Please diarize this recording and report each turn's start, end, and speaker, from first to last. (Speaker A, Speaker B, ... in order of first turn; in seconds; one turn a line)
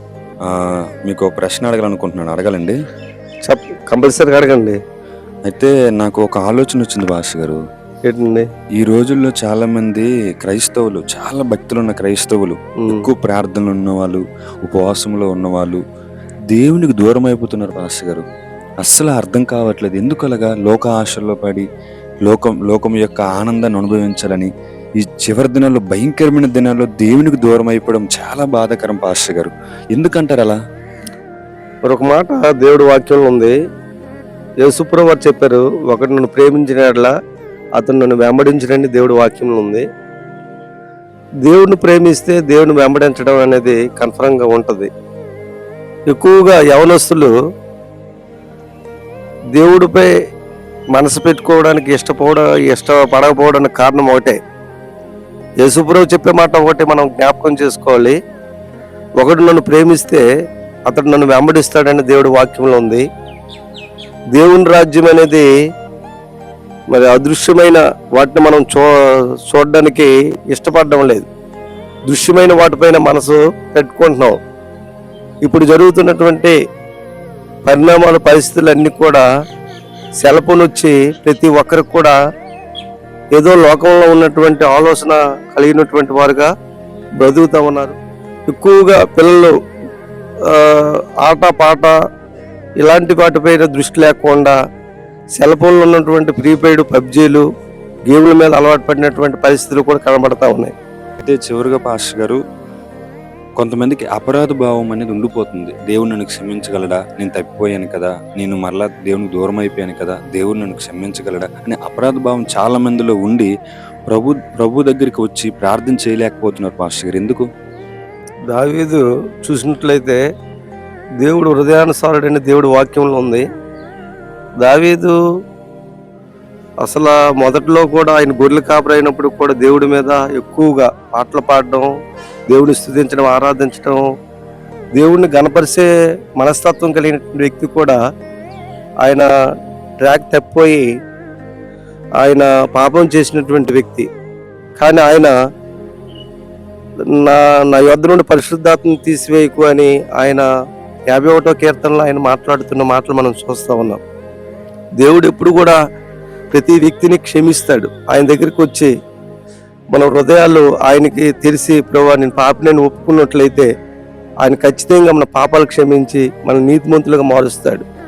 Speaker A: 0.5-2.7
Speaker B: 3.5-4.8
Speaker A: 5.5-7.6
Speaker B: 8.1-8.5
Speaker A: 8.8-15.8
Speaker A: 16.5-18.2
Speaker A: 18.8-21.6
Speaker A: 22.2-24.5
Speaker A: 25.0-30.6
Speaker B: 31.9-33.5
Speaker B: 34.6-37.1
Speaker B: 37.8-39.8
Speaker B: 41.5-44.9
Speaker B: 46.1-47.3
Speaker B: 49.5-50.1
Speaker B: 50.9-54.4
Speaker B: 55.6-58.1
Speaker B: 59.2-60.2
Speaker B: 60.9-63.0
Speaker B: 64.3-65.5
Speaker B: 66.9-68.9
Speaker B: 69.5-71.3
Speaker B: 72.1-74.3
Speaker B: 75.4-76.5
Speaker B: 77.7-79.2
Speaker B: 80.2-82.2
Speaker B: 83.3-86.5
Speaker B: 87.2-88.0
Speaker B: 88.5-89.5
Speaker B: 90.5-91.9
Speaker B: 92.8-94.5
Speaker B: 95.4-97.4
Speaker B: 98.1-100.7
Speaker A: 101.2-102.4
Speaker A: 103.6-113.5
Speaker A: 114.1-117.5
Speaker B: 118.5-120.2
Speaker B: 121.2-123.4
Speaker B: 124.6-125.1
Speaker B: 126.8-131.9
Speaker B: 132.5-134.0
Speaker B: 134.9-138.0
Speaker B: 139.0-139.3
Speaker B: 140.0-140.8
Speaker B: 142.2-144.1
Speaker B: 144.8-145.3
Speaker B: 147.2-150.5
Speaker B: 151.1-154.0
Speaker B: 155.0-155.8
Speaker B: 156.5-158.9
Speaker B: 159.9-163.7
Speaker B: 164.4-167.8